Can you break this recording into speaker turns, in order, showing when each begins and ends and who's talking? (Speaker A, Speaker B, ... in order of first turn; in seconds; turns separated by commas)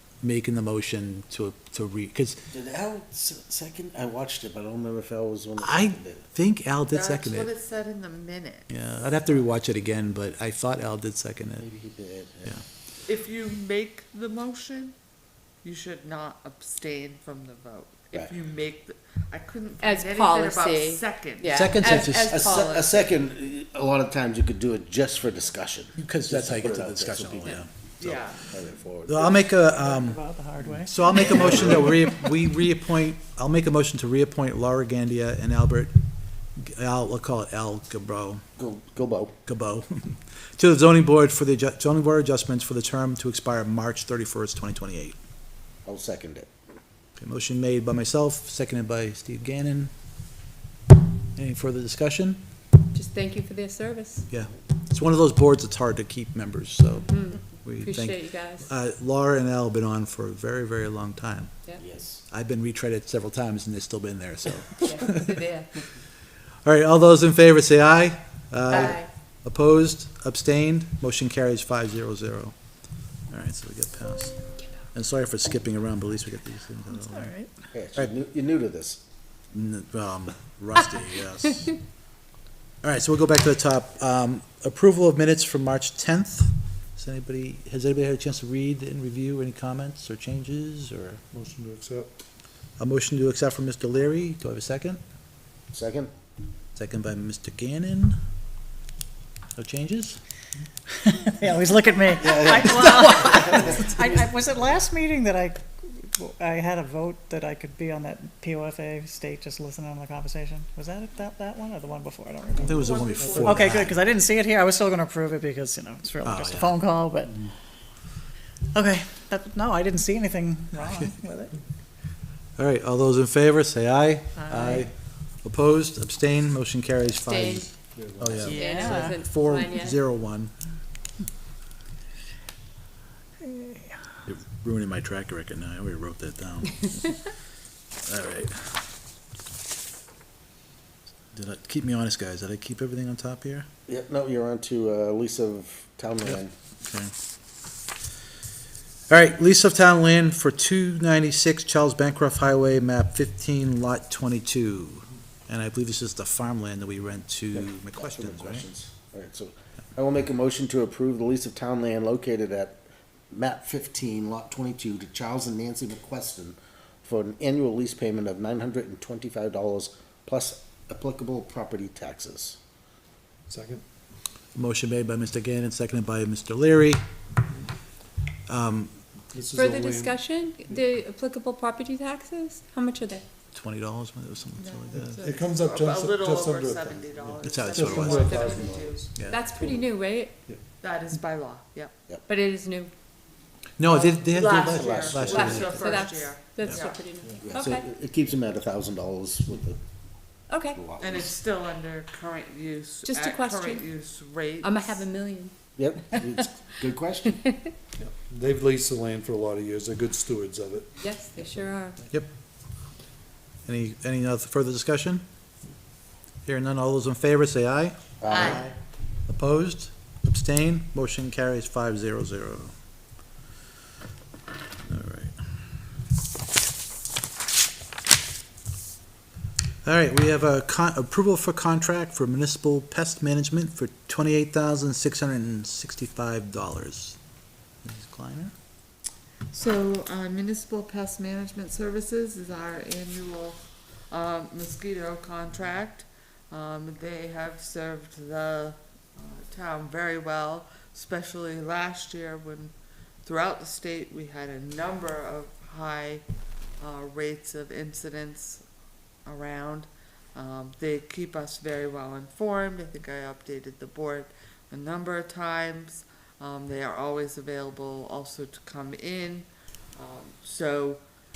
Speaker A: 0.2-2.4, Speaker B: 2.5-6.2, Speaker A: 5.6-7.5, Speaker C: 6.9-8.7, Speaker A: 8.7-11.7, Speaker B: 11.6-12.6, Speaker C: 13.1-15.0, Speaker C: 15.6-22.0, Speaker D: 19.8-23.0, Speaker A: 21.5-22.3, Speaker B: 22.2-27.6, Speaker A: 26.0-28.3, Speaker C: 28.0-28.4, Speaker B: 28.5-29.3, Speaker A: 29.1-35.9, Speaker E: 29.4-31.5, Speaker B: 31.3-31.8, Speaker A: 36.6-38.4, Speaker B: 38.6-39.3, Speaker A: 39.5-45.2, Speaker B: 45.9-46.5, Speaker A: 47.2-49.9, Speaker A: 51.4-52.4, Speaker D: 52.9-54.3, Speaker A: 54.3-61.5, Speaker D: 57.1-58.7, Speaker B: 61.8-62.2, Speaker A: 62.3-65.4, Speaker D: 64.8-65.8, Speaker A: 66.6-72.6, Speaker D: 68.7-69.1, Speaker A: 73.3-74.4, Speaker A: 74.9-77.3, Speaker E: 76.9-77.5, Speaker B: 77.7-79.0, Speaker A: 79.5-81.8, Speaker A: 82.8-91.2, Speaker F: 91.3-92.1, Speaker A: 92.8-95.0, Speaker B: 95.7-96.1, Speaker A: 96.8-98.2, Speaker A: 99.6-100.2, Speaker E: 101.0-112.9, Speaker B: 102.2-103.0, Speaker C: 112.6-114.0, Speaker A: 112.6-114.0, Speaker F: 112.8-113.5, Speaker E: 113.4-117.5, Speaker A: 116.2-116.8, Speaker E: 118.7-121.6, Speaker A: 122.6-130.5, Speaker E: 124.4-124.8, Speaker D: 127.2-127.7, Speaker F: 128.0-128.6, Speaker E: 128.4-129.2, Speaker D: 128.5-130.0, Speaker E: 133.4-134.0, Speaker A: 134.3-137.2, Speaker A: 138.1-138.8, Speaker A: 141.3-143.7, Speaker B: 143.9-146.5, Speaker A: 146.8-147.1, Speaker A: 149.1-158.7, Speaker B: 157.6-172.6, Speaker F: 173.5-173.8, Speaker A: 174.6-177.0, Speaker A: 178.5-178.9, Speaker F: 179.3-180.8, Speaker D: 179.5-183.2, Speaker A: 183.5-185.3, Speaker C: 184.6-189.1, Speaker F: 185.0-190.0, Speaker A: 187.4-188.3, Speaker D: 188.2-188.6, Speaker D: 189.2-190.4, Speaker C: 190.8-191.9, Speaker D: 192.3-192.9, Speaker A: 193.8-196.0, Speaker C: 194.3-197.0, Speaker B: 194.5-195.6, Speaker D: 195.3-197.9, Speaker B: 197.4-199.8, Speaker D: 200.5-200.8, Speaker B: 200.7-201.3, Speaker C: 201.0-205.0, Speaker D: 203.1-203.9, Speaker D: 204.6-205.5, Speaker B: 205.8-207.4, Speaker F: 208.0-210.9, Speaker D: 211.0-212.0, Speaker A: 213.7-215.2, Speaker A: 216.5-218.0, Speaker B: 218.2-218.7, Speaker C: 218.3-218.8, Speaker A: 219.3-222.7, Speaker A: 224.9-225.3, Speaker A: 229.8-237.2, Speaker A: 237.8-238.5, Speaker C: 239.5-252.7, Speaker C: 253.2-256.2, Speaker C: 256.8-258.6, Speaker C: 259.2-271.0